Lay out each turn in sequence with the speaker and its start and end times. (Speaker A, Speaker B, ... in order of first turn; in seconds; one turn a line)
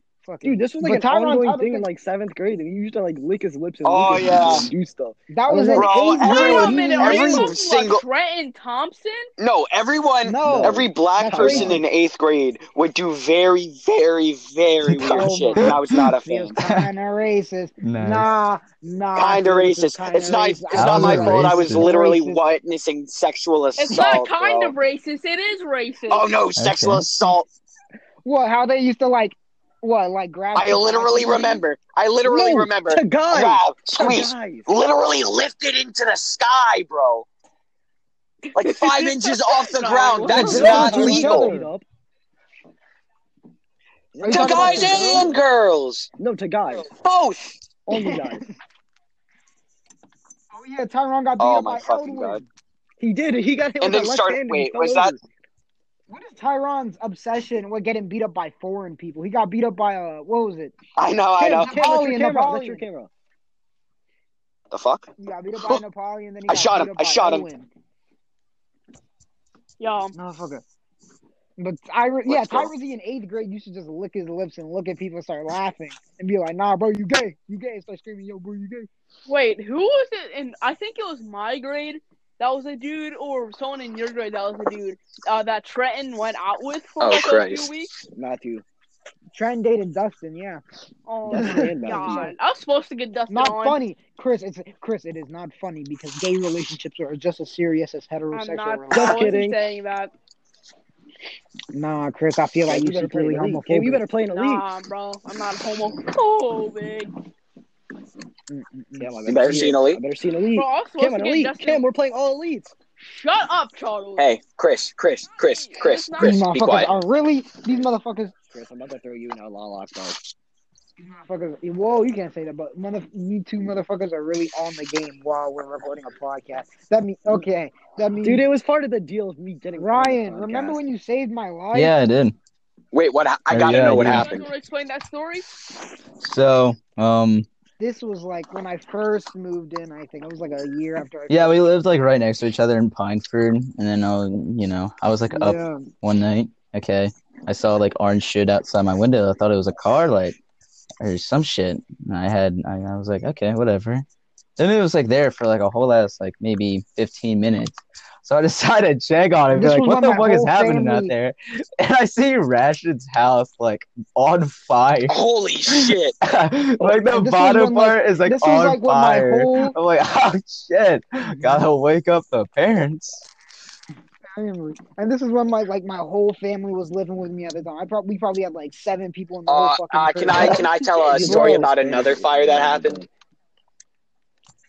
Speaker A: 0.2-1.9
Speaker B: 0.4-6.1
Speaker C: 3.8-4.7
Speaker A: 5.3-7.5
Speaker C: 5.8-8.0
Speaker D: 6.2-9.3
Speaker C: 9.4-16.6
Speaker A: 10.2-11.8
Speaker B: 10.4-11.8
Speaker E: 15.0-16.0
Speaker A: 15.1-22.4
Speaker E: 16.6-16.9
Speaker E: 17.8-18.3
Speaker C: 19.1-24.7
Speaker E: 20.7-21.9
Speaker D: 23.8-26.3
Speaker C: 26.1-27.5
Speaker E: 26.6-27.1
Speaker A: 28.2-31.6
Speaker C: 30.6-37.3
Speaker B: 32.2-34.7
Speaker C: 38.5-41.5
Speaker D: 38.8-41.2
Speaker B: 40.2-41.9
Speaker A: 40.2-41.7
Speaker B: 44.1-45.4
Speaker A: 44.2-45.3
Speaker C: 44.2-46.1
Speaker B: 46.2-46.9
Speaker C: 46.8-47.5
Speaker B: 47.9-48.5
Speaker A: 47.9-48.5
Speaker A: 50.5-52.5
Speaker C: 51.4-52.4
Speaker B: 53.0-55.2
Speaker C: 53.8-55.1
Speaker A: 56.1-60.8
Speaker C: 61.0-61.7
Speaker B: 61.4-63.1
Speaker A: 61.5-62.8
Speaker C: 64.7-65.1
Speaker A: 65.2-67.7
Speaker C: 66.5-67.5
Speaker D: 69.8-70.1
Speaker A: 70.2-70.6
Speaker A: 71.6-78.9
Speaker C: 72.3-72.7
Speaker D: 79.3-87.9
Speaker C: 87.0-87.7
Speaker B: 88.1-88.7
Speaker A: 89.3-90.6
Speaker D: 91.1-93.8
Speaker B: 91.3-92.3
Speaker A: 91.3-92.3
Speaker A: 93.3-99.4
Speaker D: 98.3-100.1
Speaker B: 98.9-99.7
Speaker A: 101.7-104.0
Speaker B: 102.7-104.7
Speaker D: 104.3-107.1
Speaker A: 108.5-109.2
Speaker B: 109.0-112.7
Speaker C: 109.3-110.0
Speaker D: 110.5-111.8
Speaker D: 113.0-114.3
Speaker C: 114.2-116.9
Speaker D: 115.3-116.5
Speaker A: 116.2-118.3
Speaker B: 118.5-120.2
Speaker A: 121.0-128.5
Speaker B: 128.2-130.8
Speaker A: 129.8-132.0
Speaker E: 131.7-132.4
Speaker C: 132.9-134.5
Speaker E: 133.5-134.3
Speaker D: 133.9-135.5
Speaker E: 136.2-137.5
Speaker A: 137.8-141.6
Speaker E: 141.3-150.4
Speaker A: 145.3-145.9
Speaker E: 151.0-154.1
Speaker E: 154.6-173.3
Speaker A: 159.5-161.1
Speaker C: 165.1-166.2
Speaker A: 166.8-169.8
Speaker A: 171.4-171.7
Speaker A: 174.3-181.7
Speaker C: 179.5-183.1
Speaker B: 180.3-183.1